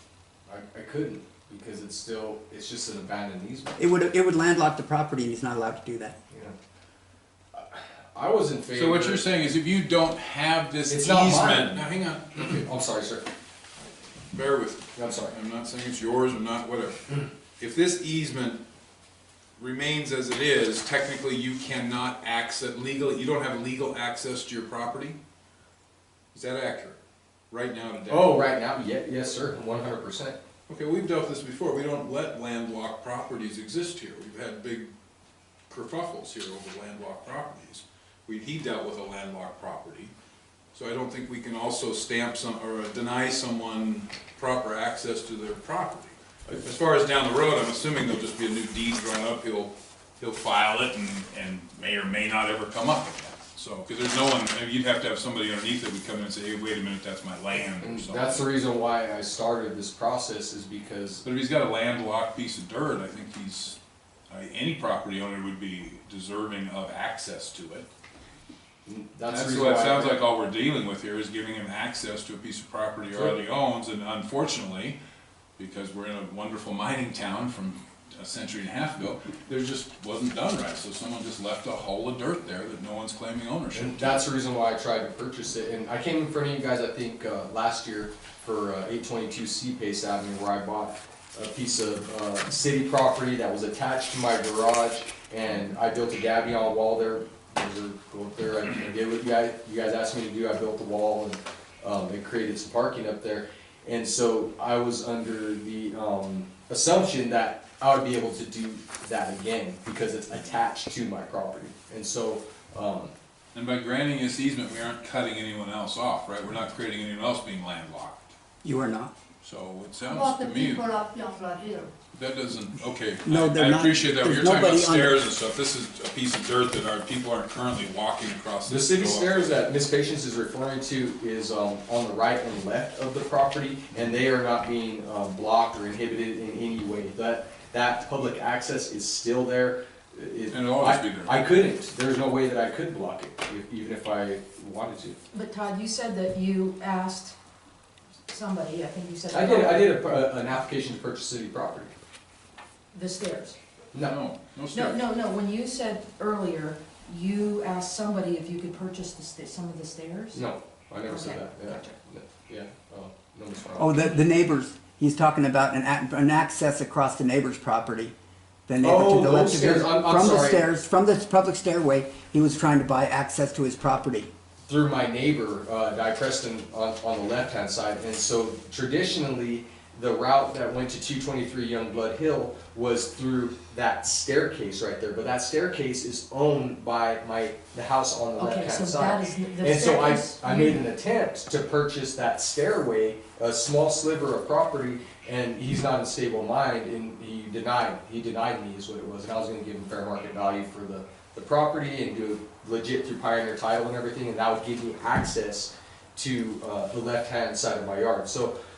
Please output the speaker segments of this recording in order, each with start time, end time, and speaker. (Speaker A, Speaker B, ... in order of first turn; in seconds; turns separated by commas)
Speaker A: 0.5-3.8, Speaker B: 3.8-6.2, Speaker A: 6.3-6.5, Speaker A: 7.5-9.2, Speaker C: 8.7-12.4, Speaker A: 10.9-11.8, Speaker A: 12.3-13.2, Speaker C: 14.3-17.0, Speaker A: 14.9-15.3, Speaker C: 17.6-18.6, Speaker C: 19.6-25.2, Speaker C: 26.3-27.0, Speaker C: 27.5-28.5, Speaker A: 28.1-30.4, Speaker C: 30.7-34.9, Speaker C: 35.7-40.1, Speaker C: 40.7-58.4, Speaker A: 57.5-61.2, Speaker C: 61.2-63.8, Speaker C: 64.3-67.9, Speaker A: 68.8-70.2, Speaker C: 69.3-75.0, Speaker C: 75.6-84.2, Speaker A: 83.7-113.1, Speaker C: 113.5-118.3, Speaker B: 118.6-119.1, Speaker C: 119.4-120.9, Speaker D: 120.0-121.9, Speaker C: 122.1-129.6, Speaker B: 123.2-125.2, Speaker A: 128.7-145.2, Speaker C: 140.5-141.3, Speaker E: 145.3-147.4, Speaker E: 148.3-150.0, Speaker A: 149.3-151.9, Speaker E: 152.9-153.6, Speaker C: 154.0-155.0, Speaker E: 154.7-160.4, Speaker A: 160.3-163.9, Speaker E: 161.1-162.0, Speaker B: 163.8-168.1, Speaker B: 168.7-174.3, Speaker A: 168.8-170.7, Speaker A: 174.6-208.5, Speaker E: 188.4-190.8